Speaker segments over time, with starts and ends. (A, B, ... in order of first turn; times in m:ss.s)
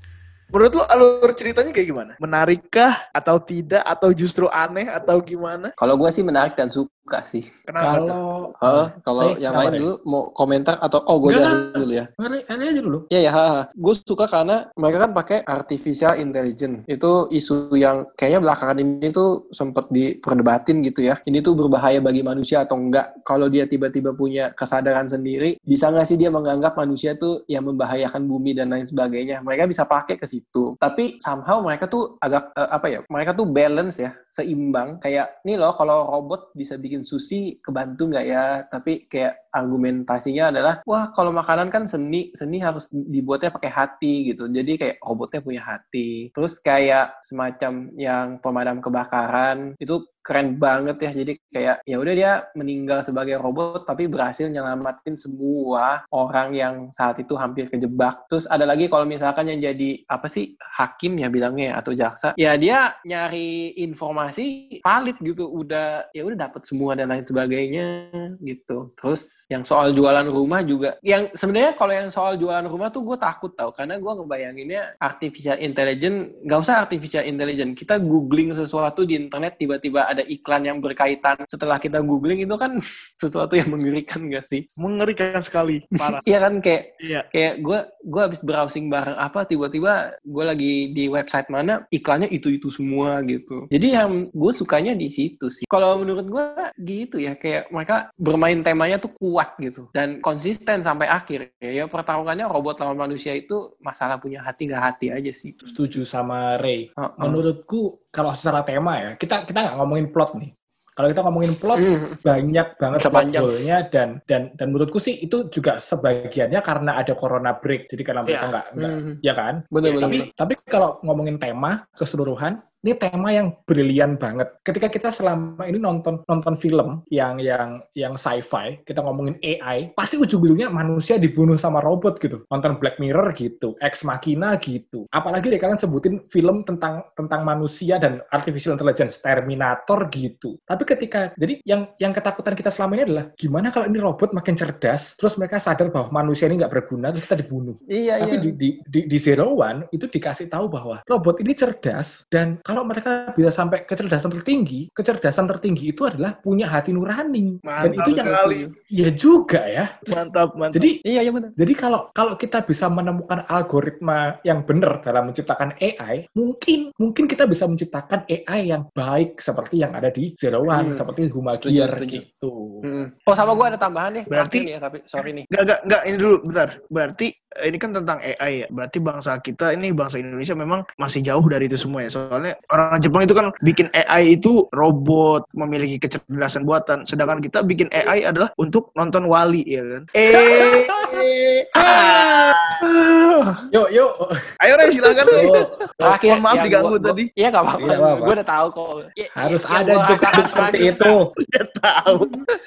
0:00.5-0:05.7 A
0:05.8-0:07.5 B
0:07.7-0:08.2 A
0:07.8-0:09.9 C
0:08.6-0:12.1 B
0:11.2-0:13.1 C
0:13.1-1:24.6 B
1:24.8-1:26.2 A
1:26.0-1:45.7 B
1:45.7-2:41.0 C
1:47.0-1:47.4 B
1:51.8-1:52.2 B
1:52.9-1:53.6 B
1:58.8-1:59.2 B
1:59.7-2:00.3 B
1:59.8-2:00.2 A
2:27.9-2:28.6 B
2:37.6-2:38.6 A
2:37.8-2:38.7 B
2:40.1-2:40.9 A
2:41.0-2:41.5 B
2:41.6-2:52.9 C
2:50.7-2:52.2 B
2:52.8-2:55.5 B
2:53.4-2:53.7 A
2:54.3-2:54.7 A
2:55.5-3:12.8 A
3:10.5-3:11.2 C
3:11.8-3:12.6 C
3:12.9-3:13.5 B
3:13.7-3:14.4 C
3:14.6-3:15.5 A
3:15.2-3:21.0 B
3:15.3-3:15.7 C
3:16.0-3:17.3 A
3:17.8-3:18.4 C
3:19.4-3:21.2 C
3:20.2-3:22.4 A